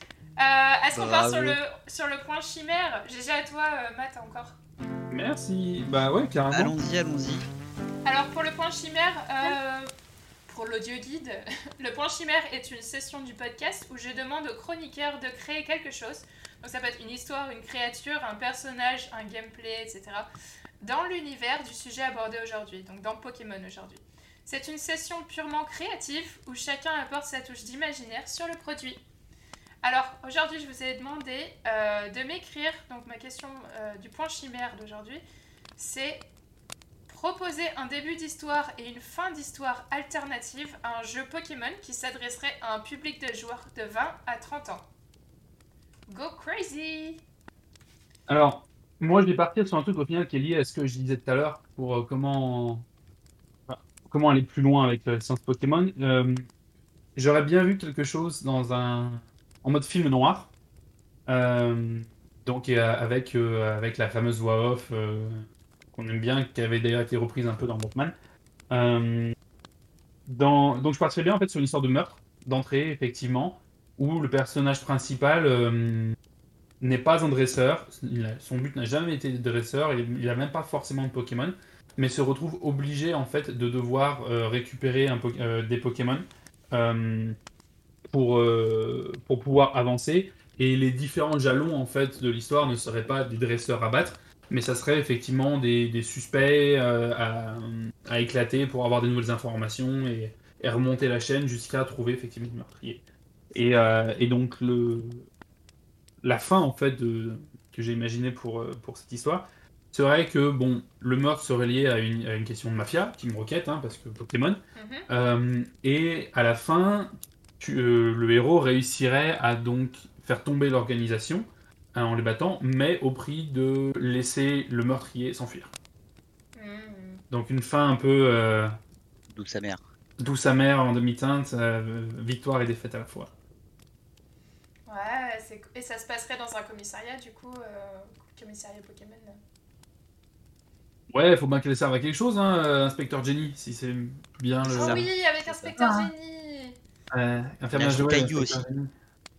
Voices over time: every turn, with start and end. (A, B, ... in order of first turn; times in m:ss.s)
0:00.4-0:04.6 A
0:01.0-0:01.6 B
0:05.1-0:06.8 C
0:06.5-0:07.5 B
0:08.1-0:09.9 A
0:10.5-0:20.3 A
0:20.8-0:29.0 A
0:29.8-0:35.2 A
0:35.8-0:36.3 A
0:37.1-0:44.9 A
0:46.1-0:47.2 A
0:48.3-0:52.9 C
0:53.7-0:56.5 C
0:57.2-1:00.5 C
1:01.3-1:08.1 C
1:08.7-1:09.4 C
1:10.3-1:16.2 C
1:16.8-1:27.4 C
1:28.1-1:43.0 C
1:43.5-1:45.3 C
1:46.2-2:05.7 C
1:54.8-1:55.1 A
2:06.6-2:07.2 A
2:07.3-2:08.7 C
2:09.3-2:09.8 B
2:10.2-2:13.3 C
2:14.9-2:19.4 A
2:21.1-2:25.1 C
2:24.7-2:25.7 B
2:24.7-2:26.8 A
2:25.8-2:26.1 C
2:27.1-2:28.9 C
2:27.7-2:28.6 B